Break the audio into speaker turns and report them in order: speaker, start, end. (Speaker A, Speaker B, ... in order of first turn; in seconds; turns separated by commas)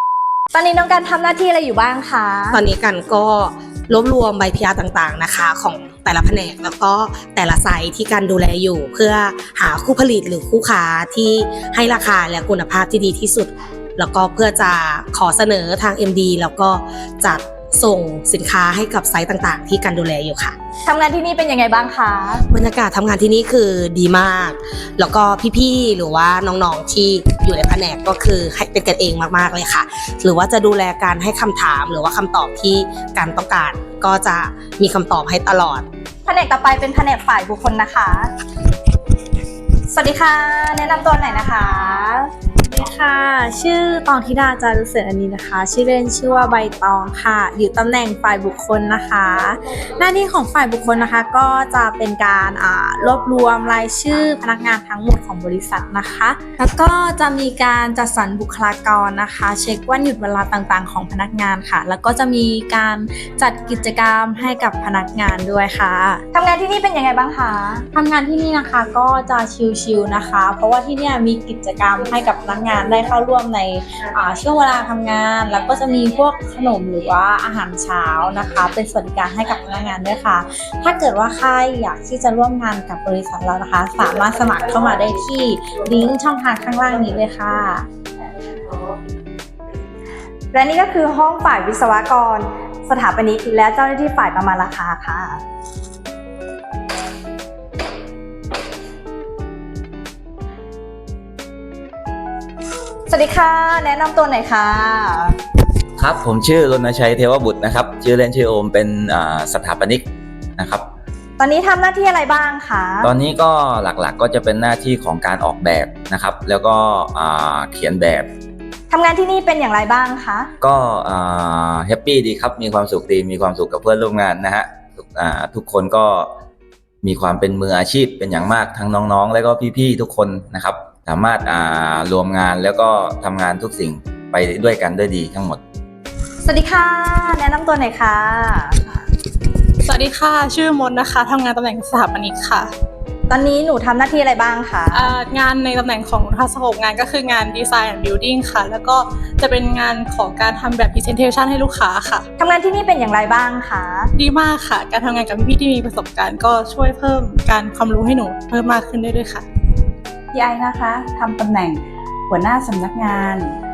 Speaker A: 0.5-2.6, Speaker B: 2.5-20.6, Speaker A: 20.8-22.4, Speaker B: 22.5-35.9, Speaker A: 36.2-38.3, Speaker A: 39.9-42.3, Speaker C: 42.6-66.2, Speaker A: 66.3-67.8, Speaker C: 67.9-87.8, Speaker A: 90.5-95.4, Speaker A: 103.1-105.4, Speaker D: 106.0-110.0, Speaker D: 110.6-110.8, Speaker A: 111.4-113.1, Speaker D: 113.0-118.3, Speaker A: 118.9-120.5, Speaker D: 120.6-126.3, Speaker D: 127.0-135.6, Speaker A: 136.4-139.0, Speaker E: 139.8-142.7, Speaker A: 143.3-145.1, Speaker E: 144.9-152.3, Speaker A: 152.4-154.1, Speaker E: 154.2-159.5, Speaker F: 160.3-163.6